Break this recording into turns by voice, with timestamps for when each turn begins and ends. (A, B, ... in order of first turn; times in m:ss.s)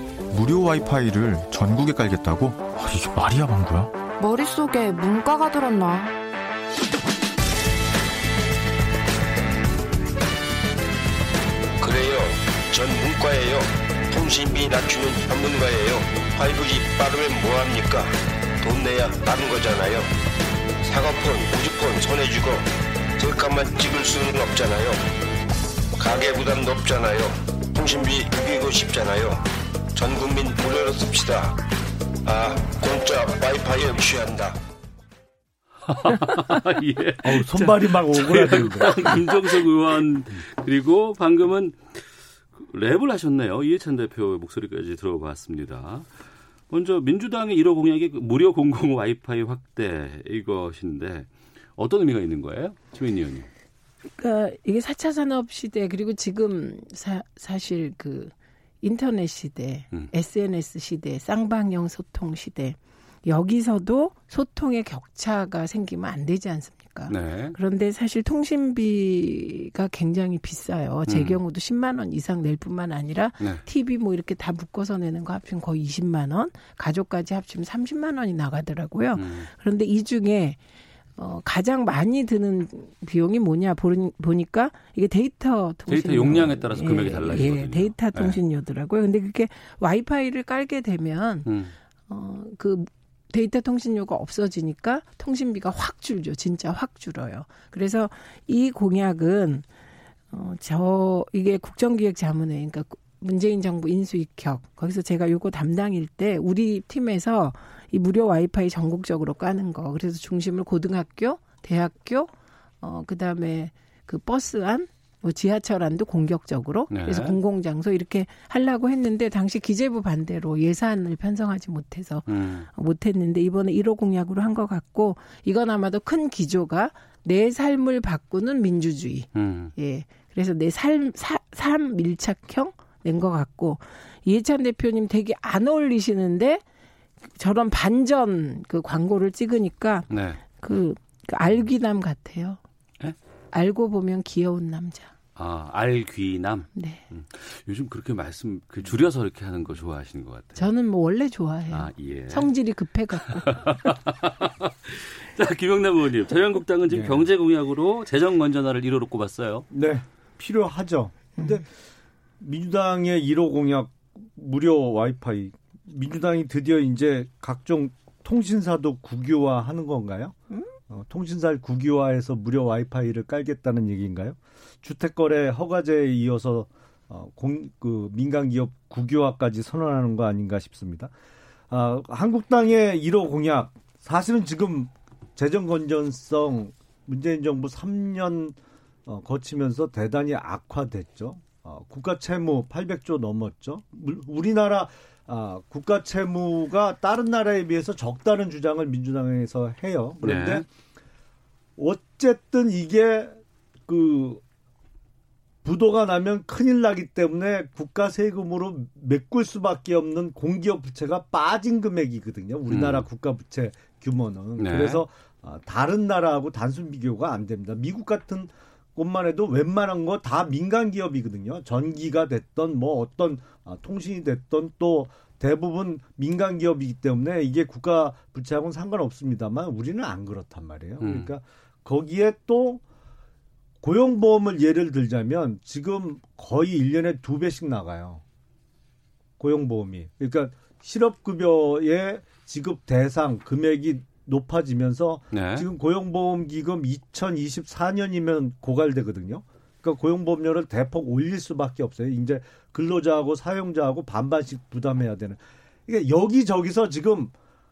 0:00.3-0:03.9 A
0:04.2-0:06.1 B
0:11.8-0:20.1 C
0:20.8-0:25.1 C
0:26.0-0:31.6 C
0:32.2-0:34.6 C
0:35.9-0:42.0 D
0:37.2-0:39.2 E
0:42.5-0:46.1 D
0:46.7-0:53.5 D
0:54.2-1:20.6 F
1:07.1-1:07.6 D
1:11.1-1:11.4 D
1:19.2-1:19.5 D
1:21.2-1:31.5 F
1:25.9-1:28.4 D
1:31.4-1:31.7 D
1:32.1-1:39.6 F
1:40.3-2:16.6 F
1:56.9-1:57.4 D
2:02.3-2:02.7 D
2:09.3-2:09.7 D
2:17.3-2:22.6 F
2:20.1-2:20.4 D
2:23.5-2:25.1 F
2:25.4-2:30.7 D
2:26.8-2:27.0 F
2:30.6-2:33.6 F
2:31.7-2:32.5 D
2:33.4-2:39.7 D
2:36.9-2:37.3 E
2:39.7-2:41.6 E
2:42.4-2:50.4 E
2:50.9-3:01.1 E
3:01.7-3:20.6 E
3:20.2-3:20.6 D
3:21.8-3:24.4 E
3:25.6-3:52.8 E
3:32.7-3:33.0 D
3:34.6-3:35.0 D
3:51.0-3:51.3 D
3:53.8-3:58.2 E
3:59.4-4:17.3 E
4:05.3-4:05.7 D